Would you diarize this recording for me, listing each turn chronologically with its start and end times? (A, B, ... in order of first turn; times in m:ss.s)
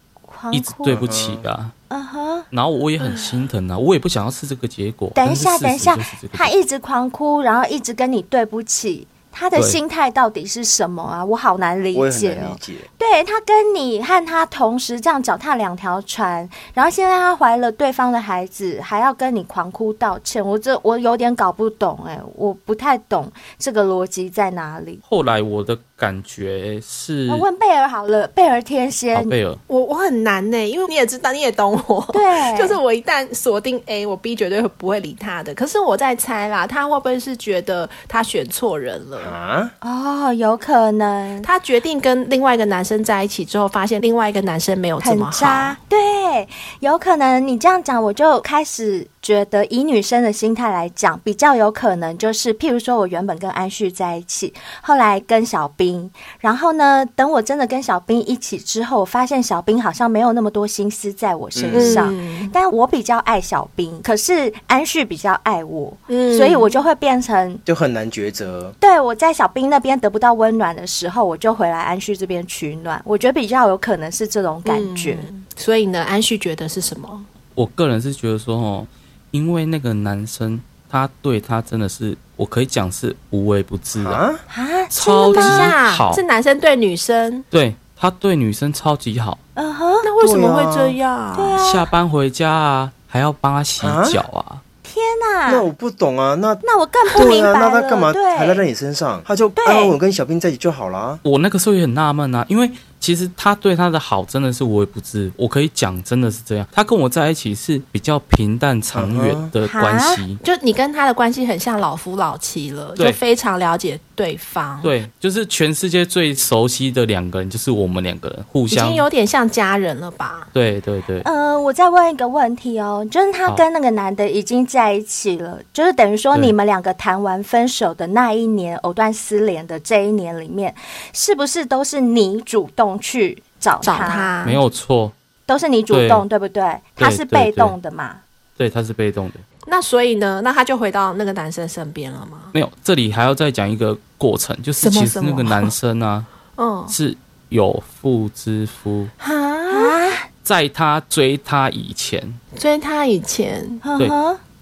0:00.3-0:01.0 A
0:00.5-0:01.7 B
0:00.8-0:01.4 C
0:01.9-0:02.5 A
0:02.5-0:06.5 B
0:03.0-0:03.3 D
0:05.1-0:25.0 A
0:11.9-0:12.9 C
0:25.1-0:27.5 B
0:27.3-0:29.3 A
0:29.1-0:29.6 B
0:29.7-0:39.4 D
0:32.1-0:32.8 A
0:39.2-0:39.7 C
0:39.8-0:41.5 A
0:41.4-0:45.8 D
0:45.0-1:07.6 A
1:01.5-1:02.1 C
1:01.7-1:02.5 D
1:06.1-1:06.7 D
1:07.6-1:08.8 C
1:08.8-1:15.3 A
1:14.6-1:17.3 D
1:17.6-1:24.2 B
1:24.0-1:24.4 C
1:24.5-1:25.7 A
1:24.9-1:26.2 B
1:25.3-1:27.4 D
1:27.5-1:29.4 B
1:29.6-1:30.1 A
1:30.0-1:31.6 D
1:30.2-1:31.0 C
1:31.3-1:31.9 A
1:31.6-1:34.6 B
1:33.8-1:34.2 C
1:34.8-1:35.7 A
1:35.5-1:41.2 C
1:36.6-1:38.6 A
1:39.6-1:40.0 A
1:41.2-1:50.4 B
1:48.9-1:49.5 C
1:49.6-1:50.2 A
1:50.4-1:54.9 D
1:54.8-1:59.1 B
1:58.7-2:00.5 D
2:00.5-2:01.3 B
2:01.2-2:14.3 A
2:13.8-2:14.6 D
2:14.4-2:15.1 B
2:15.5-2:18.2 A
2:15.9-2:16.2 B
2:17.0-2:17.8 B
2:18.6-2:19.4 B
2:19.7-2:22.5 D
2:22.5-2:26.3 B
2:24.8-2:25.7 D
2:26.6-2:26.9 D
2:26.9-2:29.1 B
2:29.2-2:29.9 D
2:29.7-2:30.3 A
2:30.4-2:32.4 B
2:32.6-2:33.8 D
2:33.8-2:34.4 A